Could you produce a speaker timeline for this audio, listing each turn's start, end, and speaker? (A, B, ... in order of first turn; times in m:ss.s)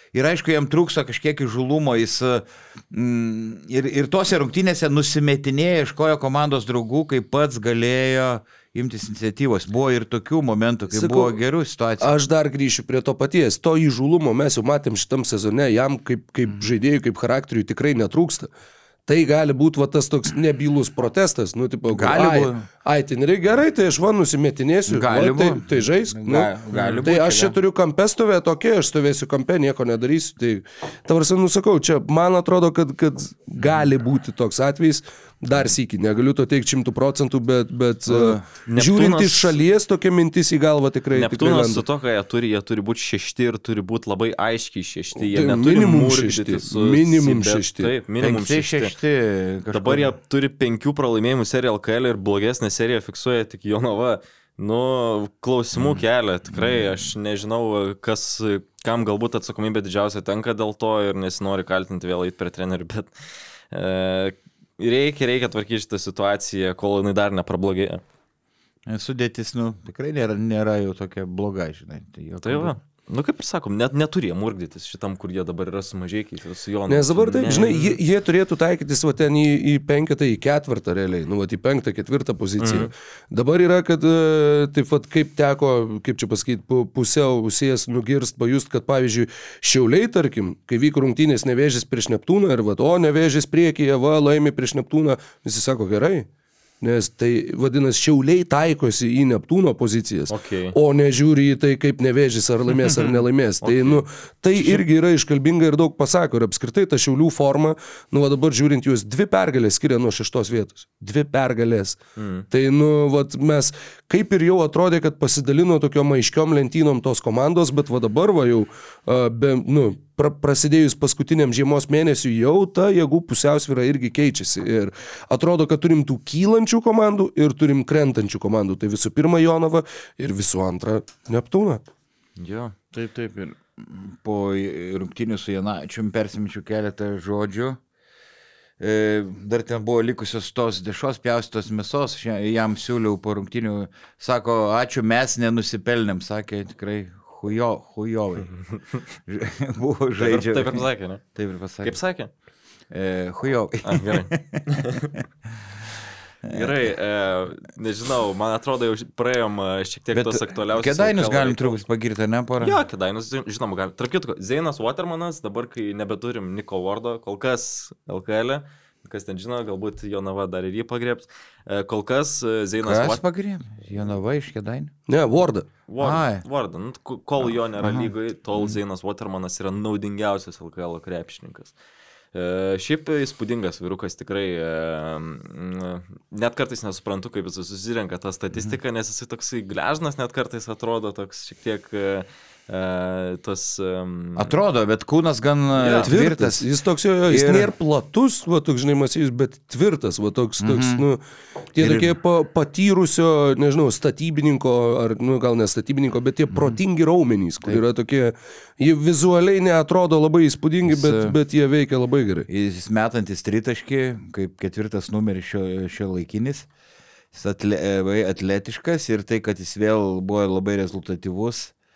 0:00.1-0:12.2 A
0:10.9-0:11.3 B
0:12.0-0:18.5 B
0:19.1-0:26.5 B
0:21.9-0:22.7 A
0:24.9-0:27.5 A
0:26.7-0:27.0 C
0:27.0-0:41.8 B
0:38.1-0:38.4 A
0:38.7-0:39.6 C
0:41.1-0:48.9 C
0:45.2-0:47.9 B
0:48.2-0:50.1 A
0:49.7-1:03.1 C
0:55.8-0:57.0 A
1:03.7-1:08.0 C
1:08.9-1:12.8 A
1:12.4-1:18.0 C
1:16.9-1:36.3 B
1:22.6-1:22.9 C
1:36.8-1:52.0 B
1:40.3-1:40.8 C
1:43.6-1:44.0 C
1:52.2-1:52.5 C
1:52.5-2:11.8 B
2:12.4-2:12.8 C
2:12.9-2:17.8 A
2:18.8-2:28.5 A
2:29.3-2:30.8 A
2:30.2-2:31.2 C
2:31.4-2:32.0 A
2:31.8-2:32.3 C
2:32.9-2:34.6 A
2:33.8-2:35.2 C
2:36.4-2:36.8 A
2:36.5-2:41.8 C
2:40.1-2:42.8 A
2:42.6-2:53.2 C
2:52.8-2:54.9 A
2:55.1-2:55.7 B
2:55.9-3:01.7 C
2:56.0-2:56.4 A
2:57.4-2:58.8 A
3:02.3-3:14.6 C
3:14.4-3:16.7 A
3:15.7-3:16.2 C
3:16.0-3:21.2 B
3:17.3-3:17.7 A
3:20.6-3:21.1 A
3:21.7-3:32.5 B
3:21.8-3:22.2 A
3:30.9-3:31.4 A
3:32.5-3:36.7 A
3:37.3-3:41.7 A